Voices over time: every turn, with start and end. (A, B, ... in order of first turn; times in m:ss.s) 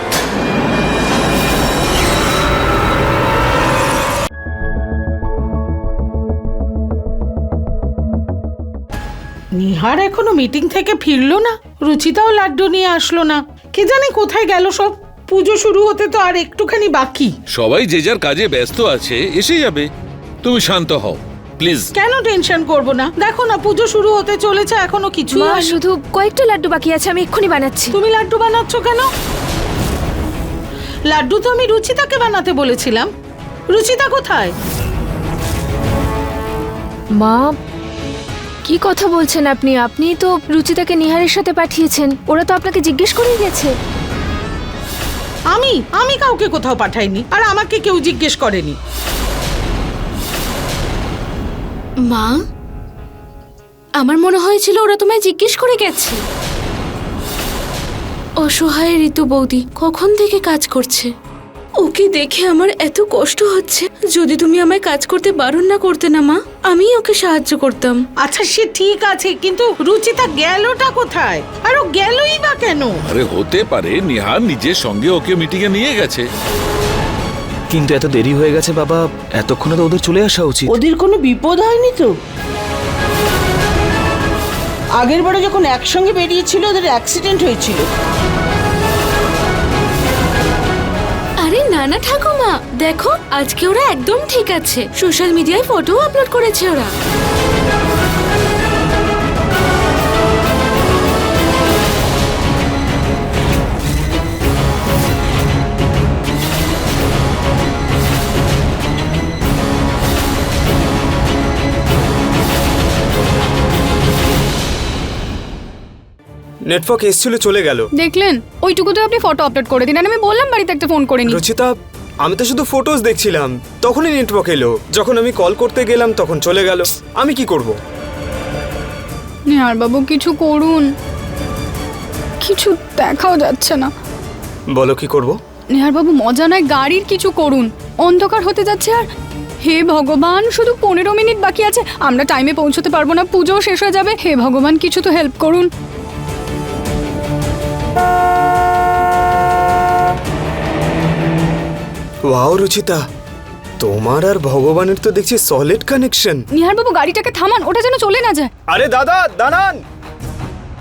0:09.6-0:17.3 A
0:17.5-0:19.9 B
0:20.4-0:21.9 B
0:21.9-0:25.8 A
0:25.3-0:28.0 C
0:27.9-0:29.1 A
0:31.1-0:33.1 A
0:33.7-0:34.5 A
0:37.2-0:37.5 C
0:38.6-0:43.7 C
0:45.5-0:48.8 A
0:52.0-0:52.4 D
0:54.0-0:56.2 D
0:58.4-1:01.1 D
1:01.8-1:08.0 D
1:08.2-1:13.0 A
1:13.0-1:16.3 B
1:17.7-1:20.8 E
1:20.7-1:22.1 F
1:25.0-1:27.8 F
1:31.4-1:36.9 D
1:56.7-1:57.9 G
1:58.0-2:01.4 H
2:01.3-2:07.8 G
2:09.5-2:10.9 H
2:12.4-2:13.9 H
2:14.7-2:15.4 G
2:15.7-2:19.0 H
2:19.6-2:25.7 H
2:32.3-2:33.0 G
2:33.8-2:36.4 G
2:36.5-2:38.5 H
2:38.7-2:39.8 G